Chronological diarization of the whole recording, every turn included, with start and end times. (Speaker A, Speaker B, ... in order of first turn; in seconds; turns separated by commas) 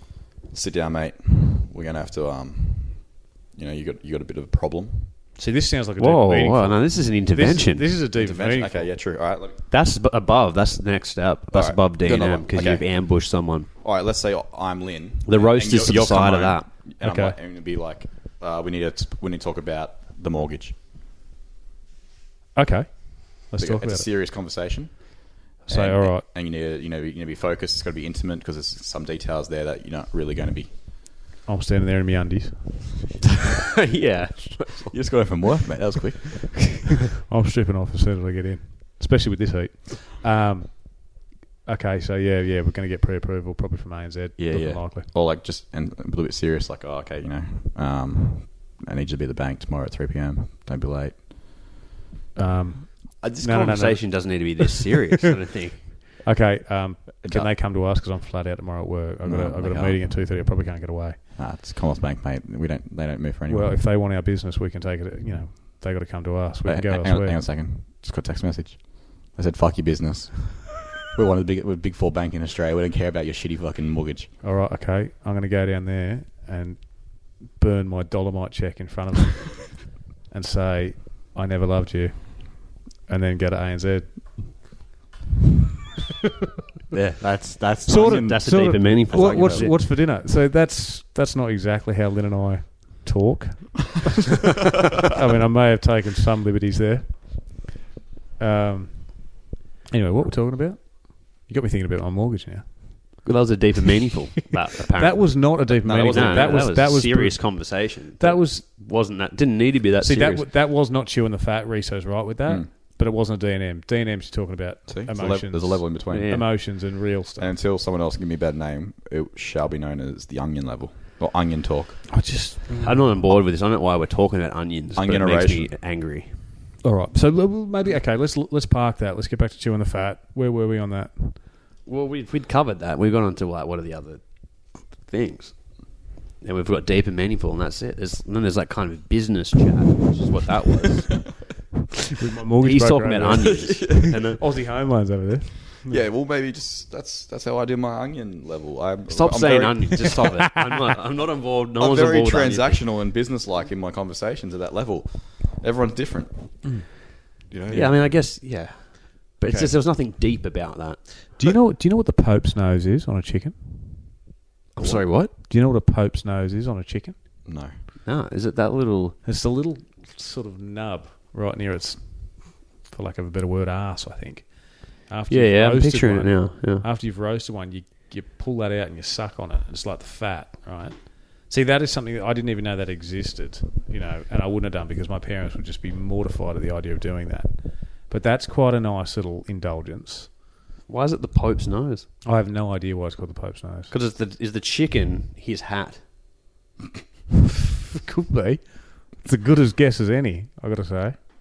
Speaker A: 0.5-5.1, Speaker B: 5.3-8.9, Speaker C: 6.0-7.9, Speaker A: 8.1-9.6, Speaker C: 9.7-13.7, Speaker A: 11.5-12.8, Speaker A: 13.8-20.8, Speaker C: 15.2-16.7, Speaker B: 17.0-17.4, Speaker B: 22.6-24.1, Speaker A: 23.6-30.7, Speaker B: 25.6-26.2, Speaker B: 31.4-33.0, Speaker C: 33.5-35.4, Speaker A: 34.9-36.8, Speaker B: 37.3-45.1, Speaker A: 44.4-51.2, Speaker B: 52.3-54.5, Speaker C: 53.2-55.9, Speaker B: 56.2-61.2, Speaker A: 57.2-57.5, Speaker A: 59.2-60.0, Speaker A: 61.4-63.8, Speaker B: 63.5-67.4, Speaker A: 66.6-74.3, Speaker B: 74.4-84.7, Speaker C: 86.9-89.8, Speaker B: 87.8-97.7, Speaker A: 89.1-89.7, Speaker B: 98.4-103.1, Speaker C: 103.2-110.5, Speaker B: 105.0-108.8, Speaker A: 105.8-106.7, Speaker B: 110.0-117.5, Speaker A: 114.9-122.1, Speaker C: 116.1-116.5, Speaker C: 122.1-126.4, Speaker B: 122.7-123.0, Speaker A: 124.9-125.7, Speaker B: 126.8-131.4, Speaker C: 131.8-141.4, Speaker B: 142.2-146.0, Speaker C: 142.6-144.5, Speaker A: 143.7-144.2, Speaker A: 145.8-150.2, Speaker C: 149.1-152.8, Speaker A: 151.8-156.8, Speaker A: 157.5-158.1, Speaker C: 157.7-161.4, Speaker B: 159.4-159.7, Speaker B: 161.4-164.2, Speaker C: 164.8-165.3, Speaker B: 165.3-167.1, Speaker A: 167.4-167.7, Speaker C: 168.0-169.2, Speaker B: 169.2-190.3, Speaker C: 175.3-176.8, Speaker C: 190.9-192.1, Speaker B: 192.2-193.9, Speaker C: 193.9-196.1, Speaker B: 198.0-201.2